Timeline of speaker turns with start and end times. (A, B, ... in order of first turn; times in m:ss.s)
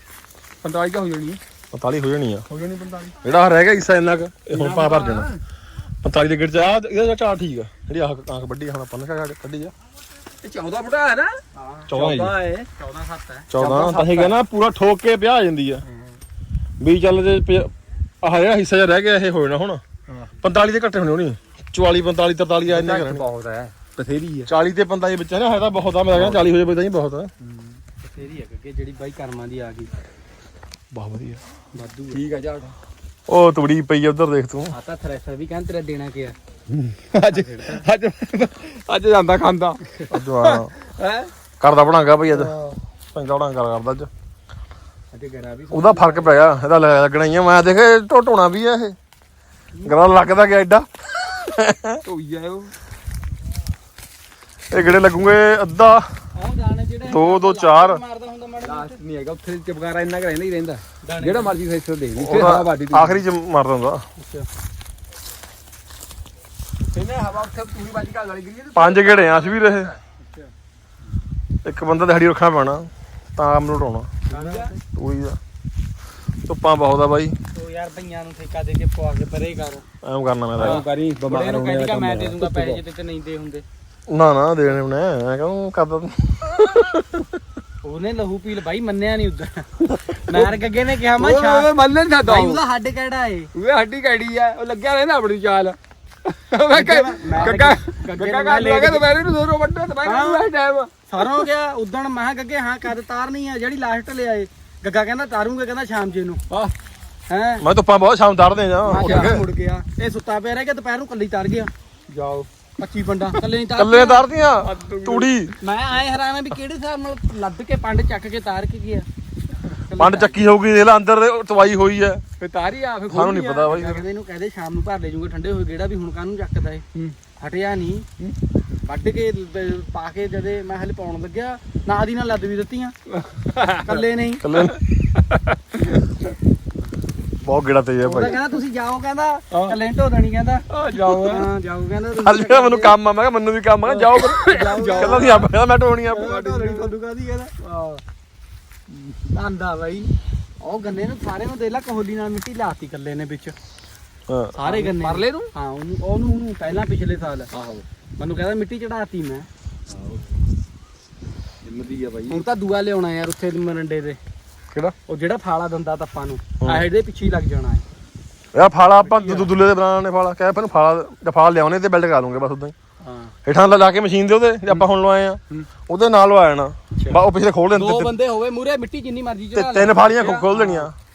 0:00.6-0:01.4 A
0:01.7-0:02.4 B
0:02.5-0:03.2 A
0:03.2-0:05.3 B
0:04.5-0:05.4 A
0:06.0-0:09.7 B
0:10.4-0:11.4 A
0:11.6-0:11.9 C
0:11.9-0:12.4 B
0:11.9-0:12.7 A
0:12.8-0:13.5 C
0:13.5-0:15.8 B
0:13.6-0:14.4 A
0:16.8-0:17.7 B
0:18.2-0:19.8 B
0:20.4-0:23.2 B
0:22.7-0:24.5 A
0:24.5-0:27.3 B
0:26.1-0:26.4 A
0:27.4-0:27.8 A
0:28.0-0:29.9 C
0:30.9-0:31.4 B
0:31.7-0:32.2 C
0:32.1-0:32.7 A
0:33.3-0:34.7 B
0:34.7-0:36.4 C
0:36.7-0:39.8 A
0:37.3-0:37.8 C
0:40.1-0:40.7 B
0:40.4-0:41.3 A
0:41.6-0:42.5 B
0:43.1-0:44.1 B
0:45.1-0:46.4 C
0:45.7-0:49.0 B
0:49.8-0:50.0 C
0:49.8-0:52.0 B
0:52.1-0:52.7 A
0:54.7-0:56.1 B
0:56.4-0:59.0 C
0:57.1-0:58.0 B
0:58.6-1:03.2 A
1:01.0-1:01.5 C
1:02.2-1:04.0 B
1:04.2-1:04.5 C
1:06.9-1:10.0 A
1:08.8-1:09.9 B
1:11.6-1:14.1 B
1:14.3-1:14.7 A
1:14.3-1:14.8 C
1:15.0-1:15.4 B
1:16.5-1:17.4 B
1:17.6-1:19.8 C
1:20.0-1:20.8 B
1:20.6-1:22.8 A
1:20.6-1:23.6 C
1:24.1-1:27.1 B
1:27.8-1:29.7 C
1:30.1-1:30.5 A
1:30.3-1:31.7 C
1:31.2-1:32.6 A
1:32.3-1:33.5 C
1:33.6-1:41.5 A
1:36.7-1:39.0 C
1:40.0-1:40.5 C
1:41.1-1:46.4 C
1:47.3-1:47.6 C
1:47.6-1:49.4 B
1:48.9-1:51.7 C
1:49.0-1:49.3 A
1:52.1-1:52.5 A
1:52.8-1:54.2 C
1:53.8-1:55.5 B
1:54.6-1:55.3 A
1:55.6-1:59.1 C
1:59.9-2:00.4 C
2:00.0-2:02.2 B
2:02.4-2:03.9 A
2:03.1-2:04.0 B
2:03.6-2:06.8 C
2:07.4-2:08.0 C
2:08.9-2:13.0 C
2:13.1-2:16.1 A
2:13.8-2:14.4 C
2:14.4-2:14.8 B
2:17.4-2:18.4 B
2:18.0-2:23.0 C
2:20.7-2:21.5 A
2:22.2-2:26.4 B
2:23.8-2:25.5 C
2:24.2-2:25.4 A
2:26.1-2:28.0 C
2:26.1-2:27.0 A
2:29.3-2:30.1 C
2:30.6-2:33.6 C
2:34.3-2:34.5 B
2:34.6-2:37.5 C
2:34.7-2:35.5 A
2:37.5-2:37.8 A
2:38.2-2:39.5 C
2:39.9-2:40.4 A
2:41.6-2:42.4 A
2:42.3-2:44.2 C
2:45.1-2:47.8 C
2:48.5-2:52.7 B
2:49.0-2:49.5 C
2:53.0-2:53.3 C
2:53.4-2:58.1 B
2:57.8-3:00.9 C
2:59.6-3:00.9 B